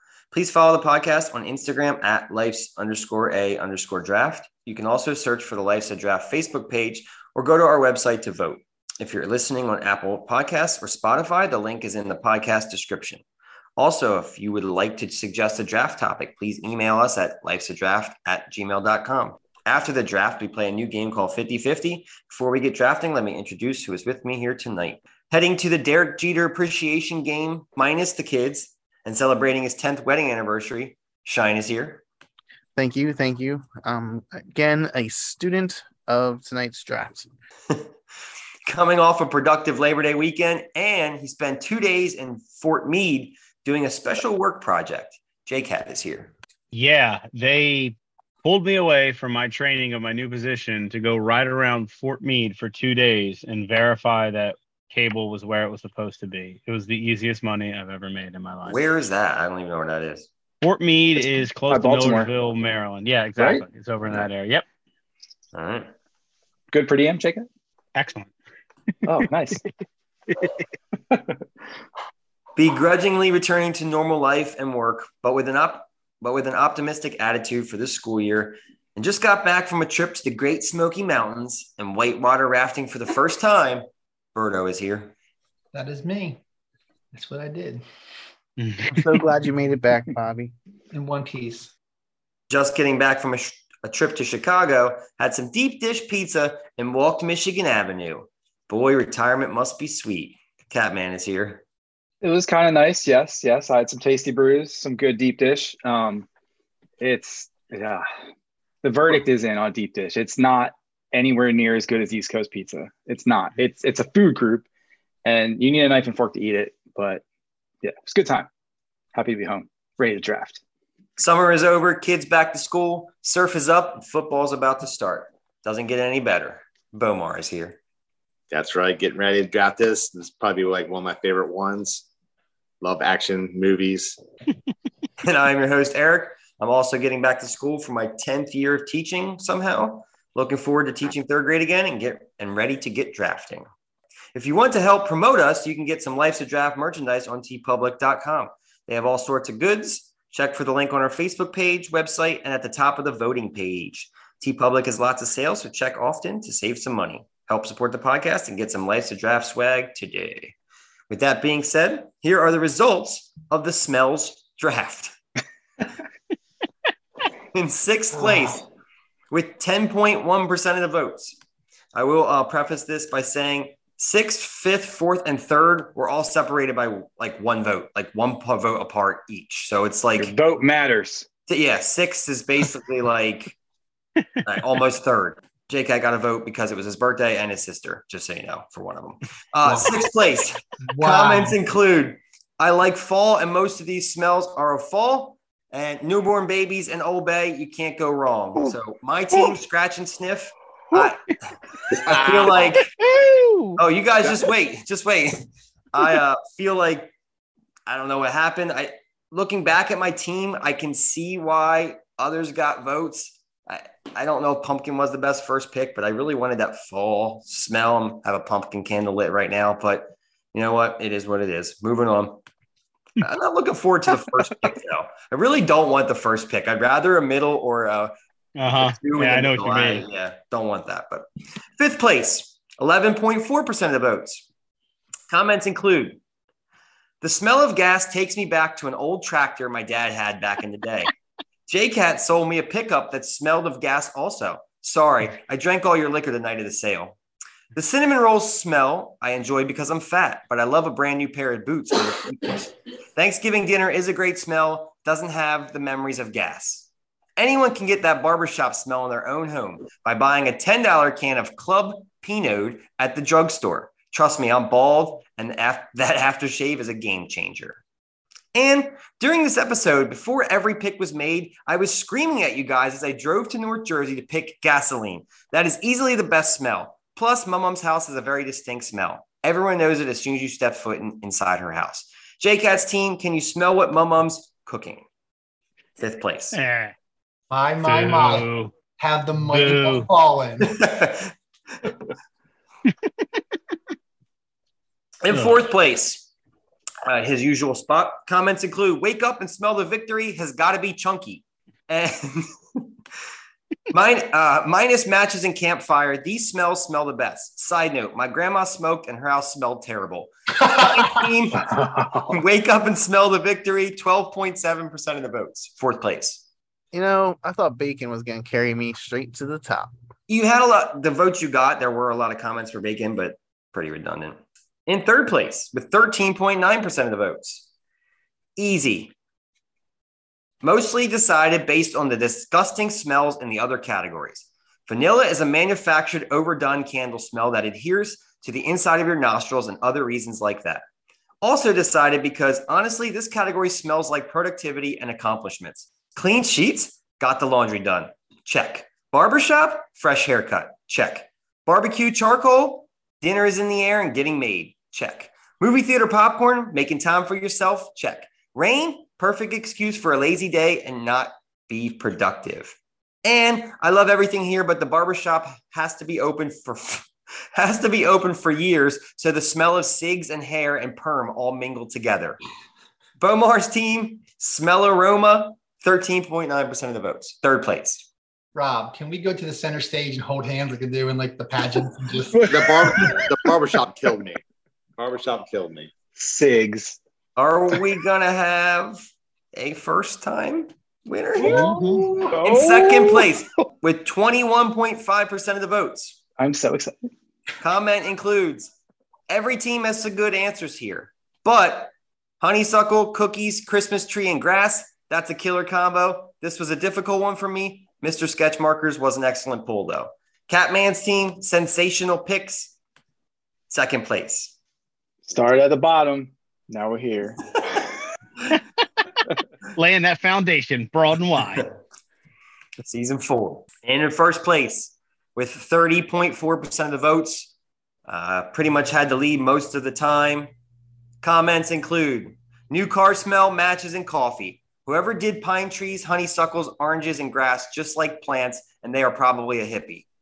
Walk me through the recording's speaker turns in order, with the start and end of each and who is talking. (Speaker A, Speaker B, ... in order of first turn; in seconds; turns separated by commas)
Speaker A: 0.3-13.2, Speaker A: 13.8-32.0, Speaker B: 32.8-37.3, Speaker A: 38.6-46.3, Speaker C: 46.7-58.9, Speaker A: 58.6-60.3, Speaker C: 60.6-64.6, Speaker D: 61.7-62.3, Speaker D: 63.4-63.6, Speaker A: 65.5-65.9, Speaker D: 66.7-67.5, Speaker C: 67.9-68.3, Speaker D: 69.0-69.7, Speaker D: 71.1-71.4, Speaker A: 72.5-85.1, Speaker E: 85.7-86.4, Speaker E: 87.1-87.8, Speaker C: 88.6-89.1, Speaker B: 88.9-90.5, Speaker E: 90.9-91.7, Speaker A: 92.5-101.6, Speaker D: 102.2-106.3, Speaker D: 107.0-108.1, Speaker D: 108.8-114.7, Speaker D: 115.2-117.2, Speaker D: 117.8-118.5, Speaker D: 119.1-120.6, Speaker A: 121.2-127.8, Speaker F: 128.5-132.0, Speaker F: 132.8-134.2, Speaker A: 135.2-143.7, Speaker A: 144.3-160.5, Speaker A: 161.1-165.1, Speaker A: 167.5-168.6, Speaker A: 169.3-171.3, Speaker A: 171.9-180.4, Speaker D: 180.2-181.3, Speaker A: 181.5-183.5, Speaker A: 184.4-201.4, Speaker E: 190.9-191.6, Speaker A: 201.9-202.9, Speaker F: 202.1-202.5, Speaker C: 202.7-203.8, Speaker A: 203.8-205.4, Speaker A: 205.9-207.1, Speaker A: 207.8-222.4, Speaker A: 223.2-228.1, Speaker C: 228.6-230.1, Speaker A: 228.7-234.4, Speaker A: 235.3-236.2, Speaker A: 237.2-241.1, Speaker A: 241.7-247.2, Speaker A: 247.7-267.8, Speaker A: 268.5-285.1, Speaker A: 286.0-286.6, Speaker C: 286.5-286.9, Speaker E: 287.5-290.7, Speaker C: 287.8-288.8, Speaker C: 289.4-290.1, Speaker A: 290.6-291.3, Speaker A: 295.2-296.3, Speaker C: 295.3-295.6, Speaker A: 297.1-302.5, Speaker A: 303.9-311.7, Speaker D: 311.6-312.4, Speaker A: 312.3-316.4, Speaker B: 316.9-319.9, Speaker A: 320.3-327.6, Speaker A: 328.6-329.1, Speaker A: 330.6-340.8, Speaker A: 341.4-372.4, Speaker A: 373.2-378.1, Speaker E: 378.5-382.9, Speaker D: 382.3-383.4, Speaker F: 382.5-384.4, Speaker F: 385.0-385.9, Speaker D: 386.1-387.0, Speaker A: 387.4-396.2, Speaker D: 391.4-393.3, Speaker E: 391.4-392.3, Speaker D: 396.4-397.1, Speaker A: 397.6-398.7, Speaker A: 399.3-412.7, Speaker A: 413.7-414.5, Speaker D: 415.2-417.8, Speaker C: 419.7-421.7, Speaker A: 422.8-427.5, Speaker A: 428.1-430.5, Speaker A: 431.2-440.1